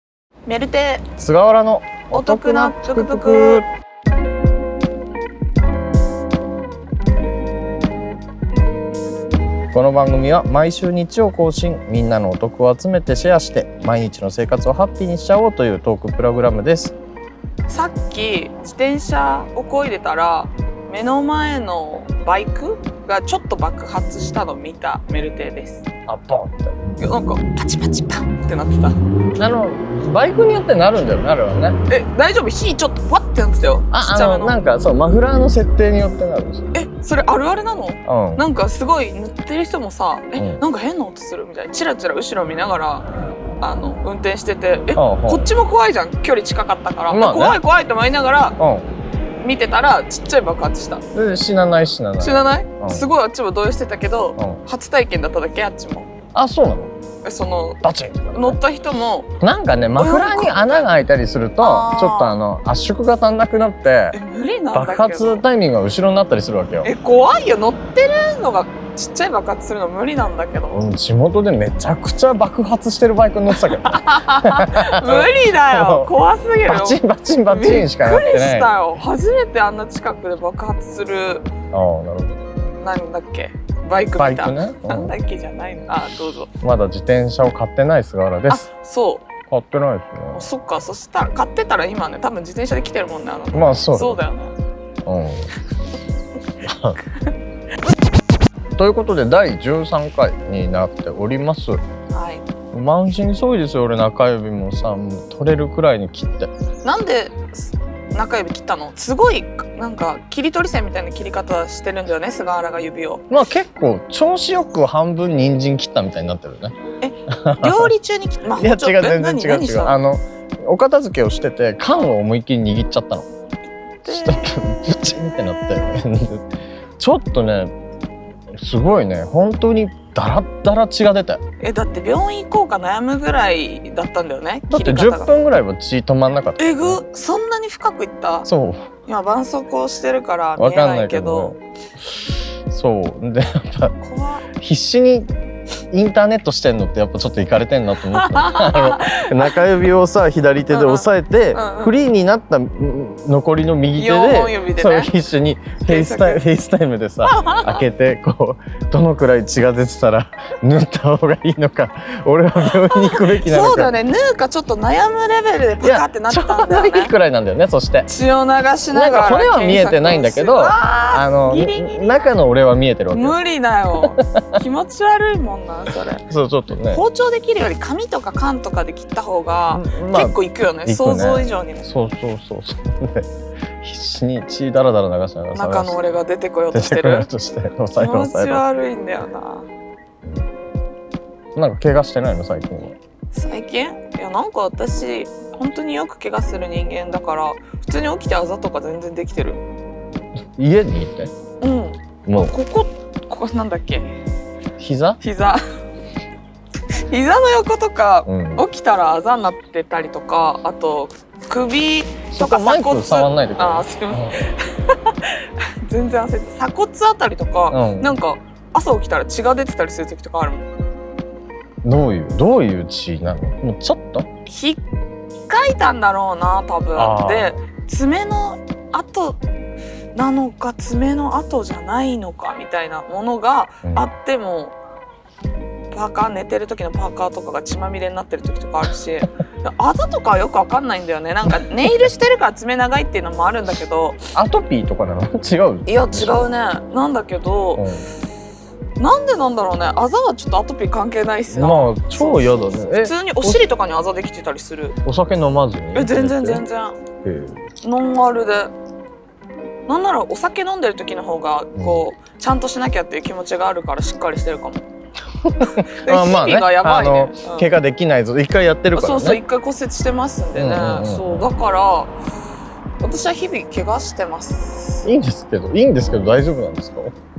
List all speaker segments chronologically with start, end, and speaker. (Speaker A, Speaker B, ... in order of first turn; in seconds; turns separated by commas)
Speaker A: 0.5-1.1, Speaker B: 1.2-3.6, Speaker A: 2.1-3.6, Speaker B: 9.7-16.9, Speaker A: 17.7-25.9, Speaker B: 26.1-26.8, Speaker A: 27.0-29.0, Speaker B: 29.4-31.8, Speaker A: 31.9-34.6, Speaker B: 33.9-36.7, Speaker A: 36.7-43.1, Speaker B: 38.1-38.4, Speaker B: 40.4-40.6, Speaker A: 43.6-48.6, Speaker B: 45.0-45.5, Speaker B: 47.1-47.6, Speaker B: 48.6-48.9, Speaker A: 49.4-51.0, Speaker B: 51.1-53.1, Speaker A: 52.2-56.1, Speaker B: 56.3-56.9, Speaker A: 57.2-59.3, Speaker B: 57.8-58.6, Speaker B: 59.4-64.2, Speaker A: 60.0-60.9, Speaker A: 61.6-62.4, Speaker A: 64.1-65.4, Speaker B: 64.7-66.9, Speaker A: 66.8-70.8, Speaker B: 70.7-76.1, Speaker A: 73.5-81.5, Speaker B: 76.7-78.7, Speaker B: 81.7-82.4, Speaker A: 82.8-86.5, Speaker B: 84.2-85.2, Speaker B: 86.6-88.7, Speaker A: 88.5-89.3, Speaker B: 89.5-90.5, Speaker A: 90.3-94.5, Speaker B: 93.5-94.2, Speaker B: 95.0-95.5, Speaker B: 96.6-97.0, Speaker B: 98.8-101.8, Speaker A: 102.1-102.5, Speaker B: 102.7-106.5, Speaker A: 106.8-113.2, Speaker B: 113.3-116.8, Speaker A: 117.0-120.0, Speaker B: 117.3-117.9, Speaker B: 118.5-123.3, Speaker A: 124.0-124.7, Speaker B: 124.0-126.5, Speaker B: 127.0-127.8, Speaker B: 128.5-131.4, Speaker A: 131.6-135.3, Speaker B: 134.7-137.0, Speaker A: 136.6-138.5, Speaker B: 138.5-138.8, Speaker A: 139.1-141.5, Speaker B: 140.6-141.6, Speaker B: 142.2-143.9, Speaker A: 144.0-144.5, Speaker B: 144.6-145.3, Speaker B: 145.9-163.9, Speaker A: 148.1-149.6, Speaker A: 150.7-151.9, Speaker A: 154.0-155.1, Speaker A: 155.9-156.4, Speaker A: 157.2-157.8, Speaker A: 162.7-167.1, Speaker B: 165.8-168.1, Speaker A: 168.1-172.3, Speaker B: 168.9-173.4, Speaker A: 173.1-176.3, Speaker B: 174.0-174.4, Speaker B: 176.3-177.0, Speaker A: 176.9-181.9, Speaker B: 179.7-186.0, Speaker A: 185.5-187.3, Speaker B: 186.7-188.6, Speaker A: 187.9-189.7, Speaker B: 190.2-190.5, Speaker B: 191.6-193.0, Speaker A: 193.3-199.6, Speaker B: 200.6-201.3, Speaker A: 201.6-204.1, Speaker B: 202.3-202.6, Speaker B: 204.8-205.2, Speaker A: 205.2-205.6, Speaker A: 207.1-220.7, Speaker B: 208.3-208.7, Speaker B: 212.3-214.5, Speaker B: 217.7-218.1, Speaker B: 221.8-224.3, Speaker A: 224.5-224.8, Speaker A: 225.5-229.4, Speaker B: 226.9-227.6, Speaker A: 230.2-234.8, Speaker A: 235.9-244.2, Speaker B: 244.3-246.5, Speaker A: 245.9-247.9, Speaker B: 247.8-248.1, Speaker A: 249.0-255.0, Speaker B: 251.5-253.6, Speaker B: 255.1-256.6, Speaker A: 255.9-257.0, Speaker B: 257.2-257.6, Speaker A: 257.8-258.7, Speaker A: 259.9-264.9, Speaker B: 261.8-262.0, Speaker B: 265.4-269.4, Speaker A: 265.6-267.7, Speaker A: 268.9-272.1, Speaker B: 270.6-271.5, Speaker A: 273.0-275.1, Speaker B: 275.1-277.1